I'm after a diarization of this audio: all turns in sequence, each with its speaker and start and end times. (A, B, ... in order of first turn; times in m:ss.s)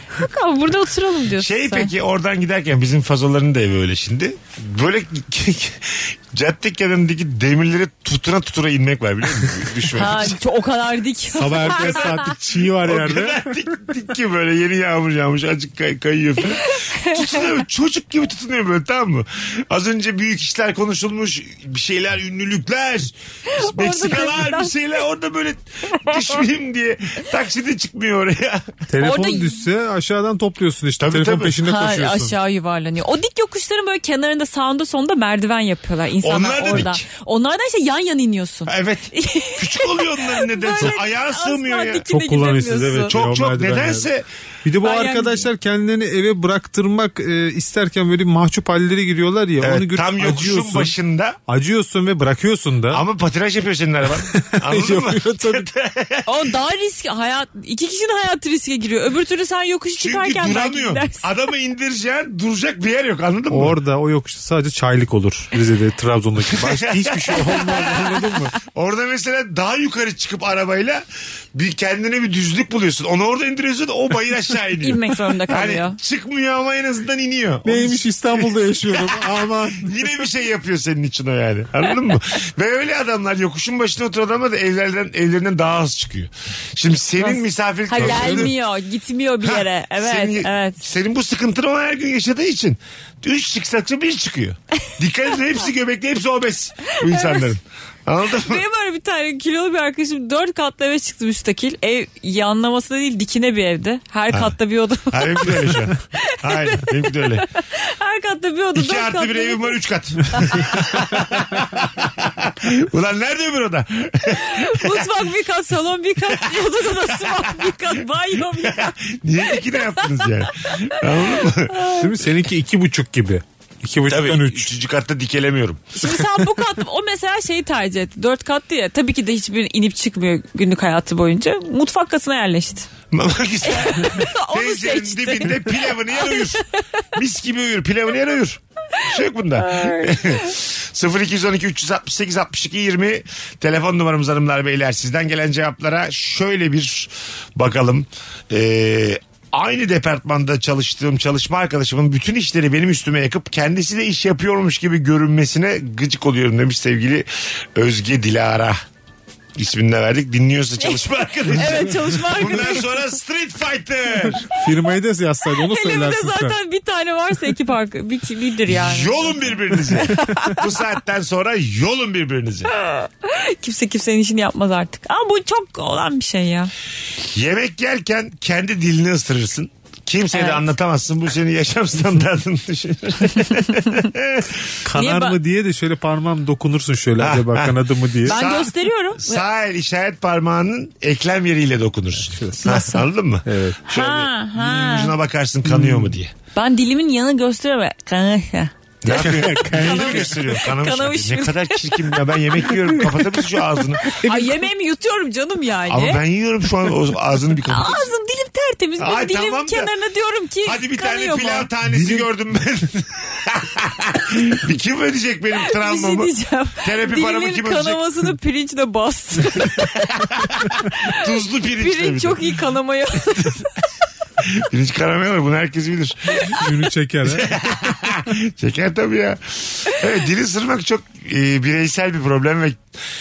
0:00.2-0:01.9 A
0:01.4-0:10.4 B
0:09.9-0:12.1 A
0:11.4-0:13.7 C
0:11.5-0:28.7 B
0:23.5-0:24.8 A
0:28.9-0:32.4 C
0:29.0-0:29.6 A
0:31.0-0:31.6 B
0:31.6-0:43.1 A
0:36.2-0:37.0 B
0:38.7-0:42.0 B
0:42.1-0:44.1 C
0:43.1-0:44.3 B
0:44.6-0:50.9 C
0:44.8-0:45.5 A
0:49.6-0:51.4 B
0:51.5-0:53.0 C
0:52.9-0:56.4 B
0:54.3-0:55.7 C
0:56.3-1:01.3 A
1:00.0-1:03.8 B
1:03.5-1:08.5 C
1:06.6-1:11.0 B
1:11.6-1:19.2 B
1:14.8-1:16.0 A
1:17.6-1:20.1 C
1:19.8-1:28.6 B
1:27.2-1:30.8 A
1:27.9-1:28.5 C
1:29.5-1:38.6 B
1:37.1-1:37.5 A
1:38.4-1:49.8 A
1:45.1-1:47.5 B
1:48.8-1:55.0 B
1:54.4-1:59.0 A
1:56.6-1:57.9 B
1:58.6-2:01.8 B
2:01.7-2:02.1 A
2:02.0-2:04.7 C
2:04.1-2:05.9 B
2:06.0-2:12.9 A
2:06.2-2:06.4 C
2:13.1-2:16.6 B
2:13.7-2:16.6 A
2:17.2-2:38.8 B
2:19.6-2:20.5 A
2:39.6-2:44.5 B
2:40.8-2:42.9 A
2:44.5-2:46.6 C
2:45.5-2:50.6 A
2:48.7-2:52.7 B
2:52.7-2:56.7 A
2:57.3-3:04.7 B
3:00.3-3:00.7 A
3:04.8-3:08.4 C
3:04.9-3:05.4 A
3:07.2-3:16.3 B
3:08.2-3:09.4 A
3:12.3-3:12.7 C
3:12.6-3:13.0 A
3:13.5-3:13.8 C
3:13.9-3:15.1 A
3:15.7-3:16.1 C
3:16.6-3:22.2 A
3:19.0-3:24.2 B
3:19.1-3:20.5 C
3:24.1-3:26.2 A
3:24.2-3:24.5 C
3:25.9-3:28.1 B
3:27.7-3:31.7 A
3:29.0-3:29.9 B
3:30.6-3:38.2 B
3:31.8-3:32.3 C
3:35.6-3:40.2 A
3:39.7-3:42.6 B
3:40.8-3:41.2 A
3:41.8-3:43.7 A
3:44.4-3:46.7 B
3:46.5-3:48.1 C
3:47.3-3:52.8 B